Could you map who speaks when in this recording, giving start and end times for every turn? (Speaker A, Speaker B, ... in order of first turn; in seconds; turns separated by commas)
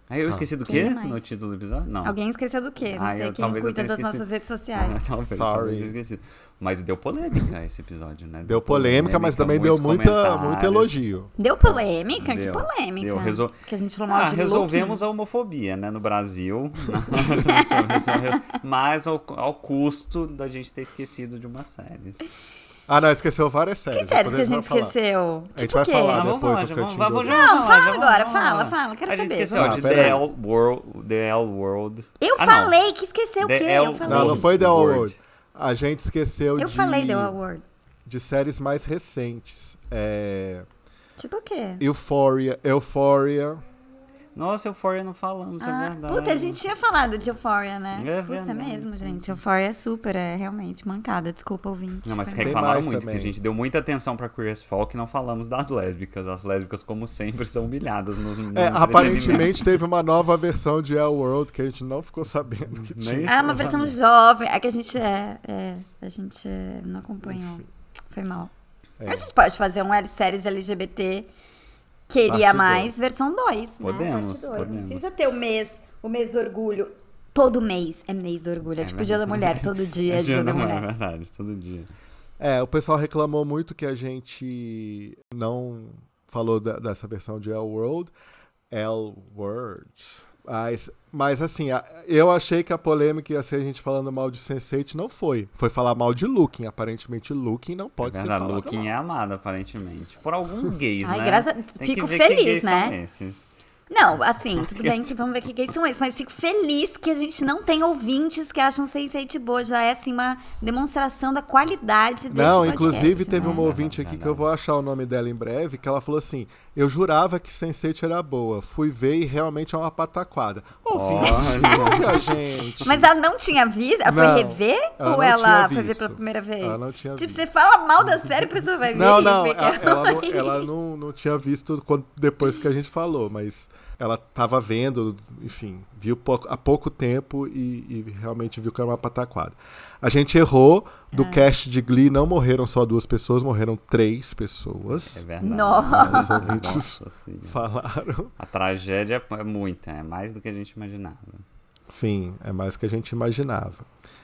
Speaker A: 0.1-2.2, Speaker B: 0.7-1.2, Speaker B: 2.0-5.0, Speaker A: 2.9-10.9, Speaker C: 5.3-5.9, Speaker C: 8.4-11.3, Speaker B: 11.4-15.0, Speaker A: 11.6-13.6, Speaker A: 14.1-22.3, Speaker B: 17.1-18.4, Speaker C: 22.9-24.9, Speaker B: 23.9-26.3, Speaker C: 25.6-27.5, Speaker A: 26.1-32.8, Speaker B: 27.3-30.2, Speaker C: 29.6-30.2, Speaker B: 32.2-34.5, Speaker A: 33.4-35.1, Speaker C: 34.0-37.4, Speaker B: 36.6-37.6, Speaker C: 38.1-40.7, Speaker B: 41.2-41.8, Speaker C: 41.8-43.6, Speaker A: 44.4-46.6, Speaker B: 45.6-52.6, Speaker A: 48.0-49.4, Speaker A: 52.0-59.6, Speaker C: 52.4-53.4, Speaker C: 58.5-63.9, Speaker A: 62.8-64.0, Speaker B: 63.2-68.5, Speaker C: 67.2-67.6, Speaker C: 69.0-69.3, Speaker B: 69.0-71.3, Speaker B: 72.1-80.9, Speaker C: 72.3-72.9, Speaker A: 73.8-75.1, Speaker A: 78.8-81.9, Speaker C: 82.4-88.1, Speaker C: 88.7-98.9, Speaker A: 98.0-103.5, Speaker B: 101.0-102.9, Speaker B: 103.9-113.7, Speaker A: 104.5-105.1, Speaker C: 112.3-123.1, Speaker A: 112.4-114.4, Speaker A: 120.9-122.3, Speaker B: 121.2-122.2, Speaker B: 122.8-130.7, Speaker C: 124.1-127.5, Speaker C: 128.9-145.2, Speaker B: 141.1-141.5, Speaker A: 144.9-147.6, Speaker B: 145.4-146.5, Speaker C: 145.9-148.3, Speaker A: 148.4-151.4, Speaker C: 151.9-153.9